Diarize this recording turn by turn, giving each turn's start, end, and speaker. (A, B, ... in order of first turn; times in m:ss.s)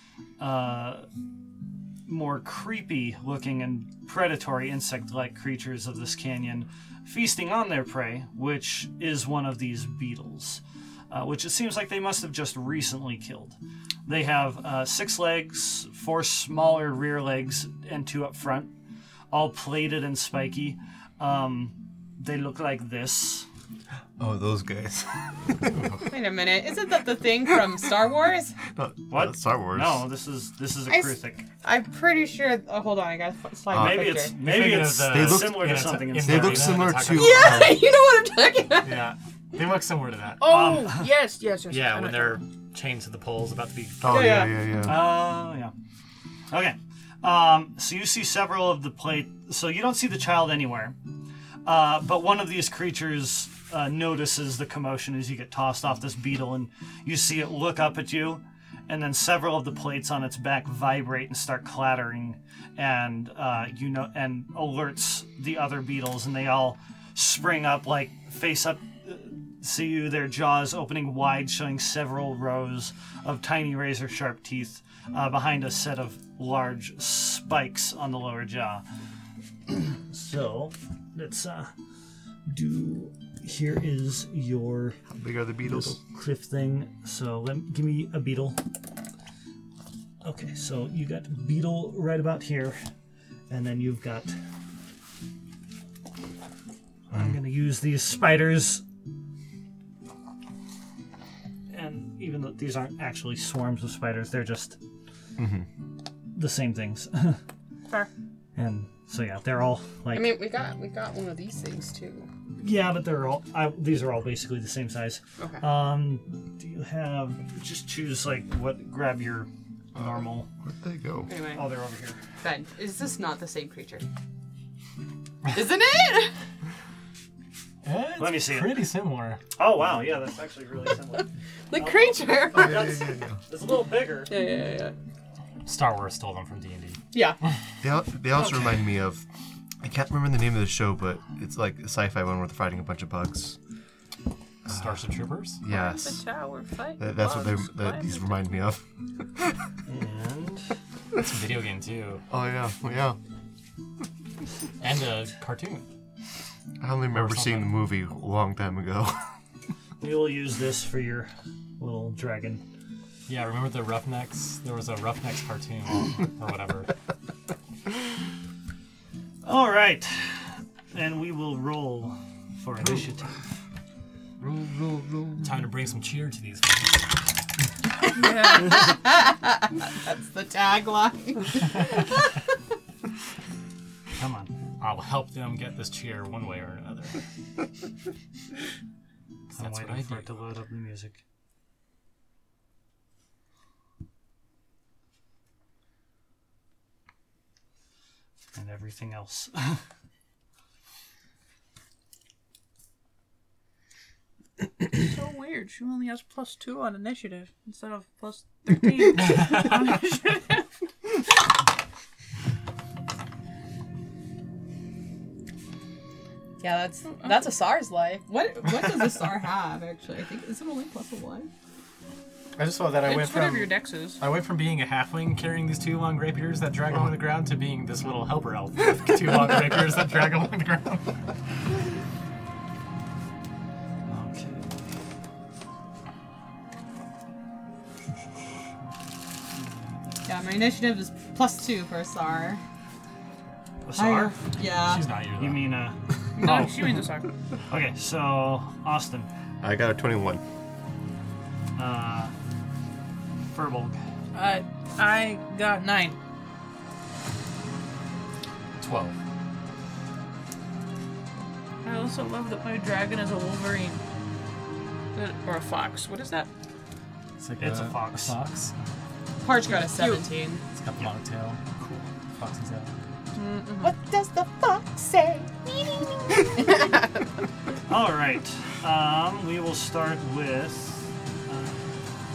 0:00.4-0:01.1 A
0:02.1-0:18.8 A
0:19.3-0:23.5 A
0:24.2-0:26.0 B
0:25.7-0:26.1 C
0:26.0-0:28.6 D
0:28.7-0:30.0 B
0:29.1-0:31.5 A
0:30.9-0:34.3 D
0:33.7-0:37.8 B
0:33.7-0:36.9 A
0:34.4-0:37.6 C
0:37.1-0:39.1 D
0:38.8-0:40.7 C
0:40.4-0:42.4 E
0:40.4-0:41.1 A
0:41.7-0:44.5 C
0:44.0-0:45.2 B
0:44.1-0:44.6 D
0:44.8-0:45.7 A
0:46.5-0:51.0 A
0:51.6-1:18.8 A
1:19.7-1:21.7 A
1:22.5-1:25.0 A
1:25.1-1:26.0 B
1:25.6-1:28.6 A
1:30.2-1:32.8 A
1:33.5-1:34.4 A
1:37.1-1:38.8 A
1:41.7-1:44.8 A
1:45.4-1:45.7 B
1:46.3-1:47.4 A
1:48.6-1:50.4 A
1:50.1-1:52.3 D
1:52.6-2:00.5 A
1:55.4-1:55.6 D
2:00.6-2:01.3 B
2:01.3-2:01.6 D
2:01.5-2:02.2 A
2:02.4-2:04.0 D
2:05.5-2:06.3 D
2:07.8-2:09.4 C
2:08.2-2:08.9 A
2:09.6-2:14.3 A
2:11.7-2:13.0 D
2:12.5-2:13.4 B
2:14.3-2:14.9 D
2:15.7-2:17.0 C
2:17.8-2:19.2 B
2:19.8-2:23.6 B
2:24.7-2:25.0 B
2:24.7-2:25.6 C
2:25.6-2:26.2 B
2:25.7-2:28.5 E
2:27.0-2:28.8 B
2:29.9-2:30.6 A
2:31.2-2:32.2 C
2:32.3-2:33.2 B
2:34.8-2:35.9 C
2:36.8-2:39.3 B
2:37.1-2:37.8 C
2:40.0-2:42.6 A
2:43.3-2:46.9 C
2:49.4-2:53.4 A
2:54.4-2:55.6 B
2:55.4-2:57.1 C
2:58.1-3:02.3 D
2:58.2-2:58.9 E
3:04.2-3:04.5 A
3:04.8-3:07.2 C
3:09.5-3:11.2 A
3:09.6-3:10.3 C
3:18.6-3:19.8 A
3:24.9-3:30.7 E
3:36.6-3:41.5 D
3:37.2-3:37.5 E
3:42.6-3:51.1 C
3:43.0-3:44.2 E
3:54.1-3:54.9 A
4:00.2-4:02.6 D
4:03.8-4:04.4 A
4:04.0-4:05.0 D
4:04.6-4:05.8 C
4:05.4-4:06.0 A
4:06.4-4:07.3 E
4:07.7-4:09.3 A
4:09.6-4:10.4 B
4:11.8-4:12.3 A
4:13.5-4:14.0 A
4:14.3-4:16.2 E
4:18.8-4:19.2 C
4:21.8-4:24.0 E
4:25.2-4:26.5 E
4:27.4-4:28.8 C
4:27.6-4:28.4 A
4:29.4-4:31.1 D
4:29.6-4:30.3 E
4:30.7-4:31.6 C
4:32.4-4:32.9 C
4:33.4-4:34.0 E
4:33.8-4:37.2 D
4:37.9-4:41.9 A